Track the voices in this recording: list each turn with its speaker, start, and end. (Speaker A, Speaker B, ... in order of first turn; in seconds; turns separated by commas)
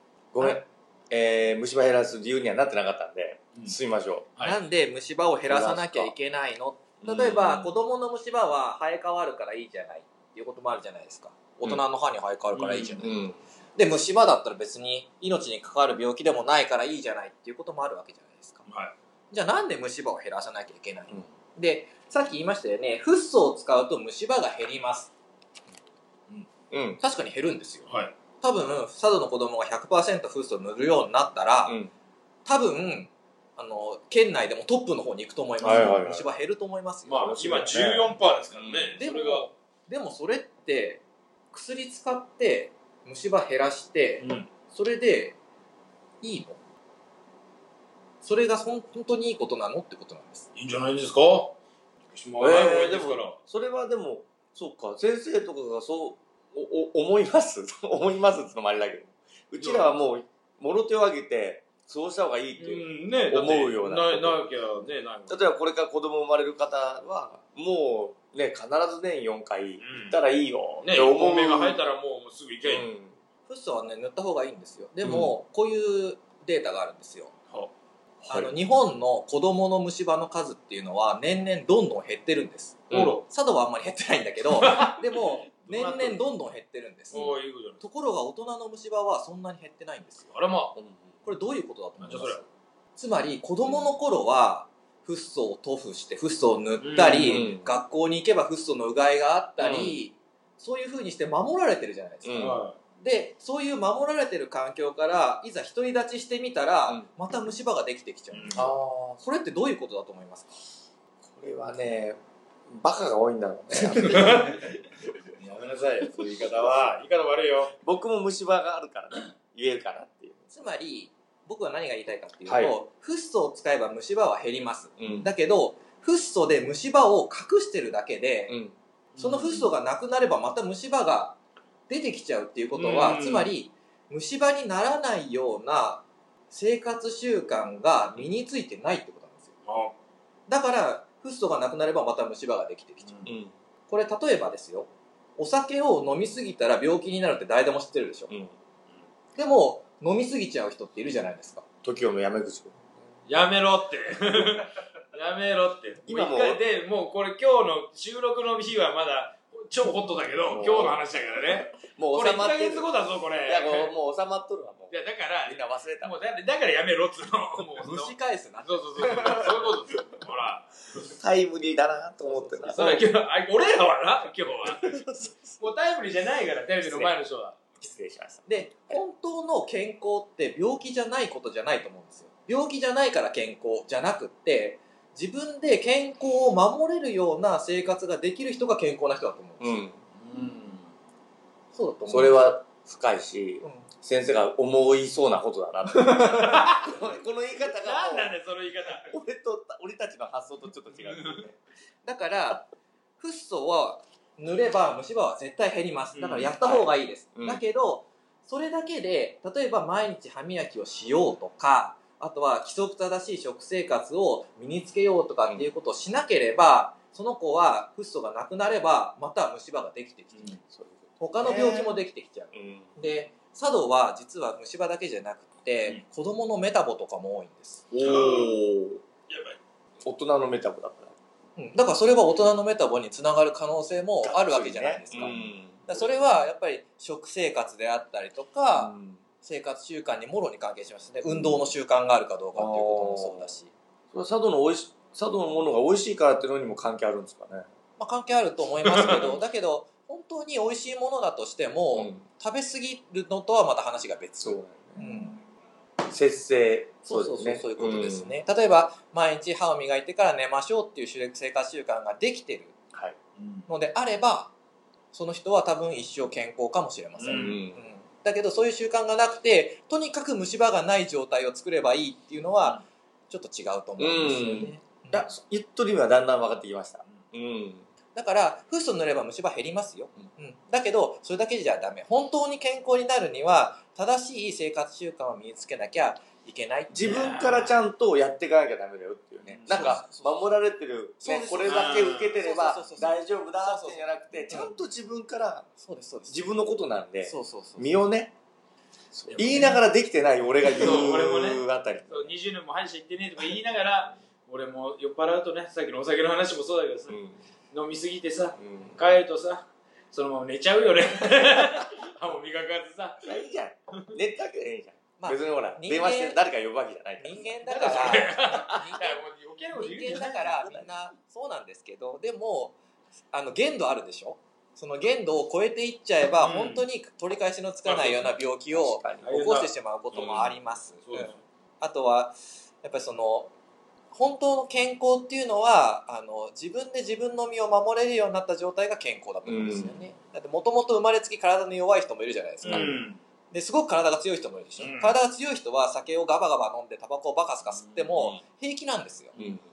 Speaker A: 0.3-4.3, Speaker B: 4.4-13.1, Speaker A: 5.5-6.1, Speaker A: 7.0-7.8, Speaker C: 12.6-13.0, Speaker A: 13.0-13.4, Speaker B: 13.8-18.6, Speaker C: 18.7-18.9, Speaker B: 19.3-25.1, Speaker A: 26.7-27.0, Speaker B: 27.0-27.9, Speaker C: 27.9-28.1, Speaker B: 28.4-31.8, Speaker A: 31.7-31.9, Speaker B: 32.5-37.4, Speaker C: 35.6-36.0, Speaker A: 35.6-36.3, Speaker C: 37.1-39.5, Speaker A: 37.2-39.0, Speaker B: 39.0-45.4, Speaker C: 44.2-44.5, Speaker B: 46.2-46.6, Speaker B: 48.2-50.5, Speaker C: 50.5-51.6, Speaker C: 52.1-53.4, Speaker A: 52.4-64.4, Speaker C: 59.6-59.9, Speaker C: 62.6-65.5, Speaker A: 65.3-71.8, Speaker C: 69.8-70.2, Speaker C: 70.8-72.9, Speaker A: 72.6-73.2, Speaker B: 73.5-77.3, Speaker A: 75.0-75.3, Speaker A: 78.2-78.5, Speaker B: 78.2-90.3, Speaker A: 82.9-83.2, Speaker C: 82.9-83.2, Speaker C: 84.5-86.2, Speaker C: 87.1-87.8, Speaker C: 90.3-90.8, Speaker A: 90.8-91.1, Speaker B: 91.2-92.4, Speaker C: 92.0-92.4, Speaker B: 93.0-110.6, Speaker C: 96.8-97.5, Speaker A: 97.0-97.7, Speaker A: 99.6-100.0, Speaker A: 102.2-102.6, Speaker C: 102.4-102.8, Speaker C: 108.3-108.7, Speaker A: 108.5-109.2, Speaker A: 111.2-114.7, Speaker C: 113.8-114.8, Speaker C: 115.4-117.8, Speaker A: 117.8-120.5, Speaker B: 120.5-128.6, Speaker A: 122.5-122.7, Speaker A: 125.0-125.3, Speaker A: 128.5-128.8, Speaker C: 129.1-129.7, Speaker B: 129.2-131.4, Speaker B: 131.9-139.5, Speaker C: 132.7-133.5, Speaker C: 139.7-139.9, Speaker B: 140.5-143.3, Speaker A: 143.2-143.5, Speaker B: 143.9-148.3, Speaker A: 148.3-148.5, Speaker B: 149.4-151.6, Speaker A: 151.8-152.8, Speaker C: 153.3-163.9, Speaker A: 156.1-156.6, Speaker A: 160.5-161.0, Speaker A: 161.8-162.9, Speaker A: 163.4-166.2, Speaker C: 164.9-171.1, Speaker B: 167.8-169.7, Speaker A: 171.0-173.1, Speaker B: 172.2-173.0, Speaker C: 172.7-177.8, Speaker A: 174.6-175.6, Speaker A: 176.8-177.1, Speaker A: 177.8-179.0, Speaker B: 178.5-189.9, Speaker A: 189.6-190.0, Speaker C: 190.1-190.9, Speaker B: 191.7-192.5, Speaker A: 192.1-198.4, Speaker B: 193.6-193.9, Speaker B: 196.1-196.6, Speaker C: 196.4-196.9, Speaker C: 197.7-199.1, Speaker A: 199.0-201.6, Speaker C: 201.1-201.4, Speaker B: 202.1-202.7, Speaker B: 203.2-220.6, Speaker C: 206.1-206.6, Speaker A: 206.6-207.6, Speaker C: 220.3-220.6, Speaker A: 220.7-222.0, Speaker B: 221.2-227.8, Speaker A: 222.5-223.0, Speaker A: 227.9-229.0, Speaker C: 228.0-228.6, Speaker C: 229.3-229.6, Speaker A: 230.0-231.1, Speaker B: 231.6-243.7, Speaker A: 234.2-236.4, Speaker A: 238.8-239.2, Speaker A: 241.3-241.6, Speaker A: 242.6-243.6, Speaker A: 244.1-247.7, Speaker B: 248.0-255.4, Speaker A: 248.8-249.4, Speaker A: 251.9-252.2, Speaker A: 254.4-255.1, Speaker A: 256.1-258.3, Speaker B: 257.1-262.8, Speaker C: 263.4-263.7, Speaker B: 263.7-264.5, Speaker B: 265.1-275.3, Speaker C: 267.2-267.6, Speaker A: 267.3-267.8, Speaker A: 274.0-277.9, Speaker B: 278.1-287.1, Speaker A: 286.9-295.7, Speaker C: 286.9-287.8, Speaker C: 289.5-289.9, Speaker B: 289.7-290.5, Speaker B: 291.2-294.7, Speaker C: 291.6-292.4, Speaker B: 295.8-296.5, Speaker A: 296.3-298.3, Speaker B: 297.2-298.0, Speaker A: 299.1-302.3, Speaker C: 299.3-299.8, Speaker B: 299.4-299.7, Speaker C: 300.7-307.2, Speaker A: 307.1-307.4, Speaker C: 307.7-313.4, Speaker A: 308.6-309.0, Speaker A: 313.2-318.2, Speaker B: 315.2-316.4, Speaker B: 317.2-322.8, Speaker C: 317.7-320.7, Speaker B: 323.3-333.5, Speaker C: 326.4-326.9, Speaker C: 327.9-328.3, Speaker A: 328.7-329.3, Speaker C: 329.2-329.7, Speaker C: 331.0-331.4, Speaker B: 334.1-343.0, Speaker A: 339.4-340.0, Speaker C: 342.6-343.2, Speaker A: 342.6-343.0, Speaker B: 343.5-349.4, Speaker C: 344.8-345.2, Speaker C: 347.8-348.1, Speaker A: 349.4-349.6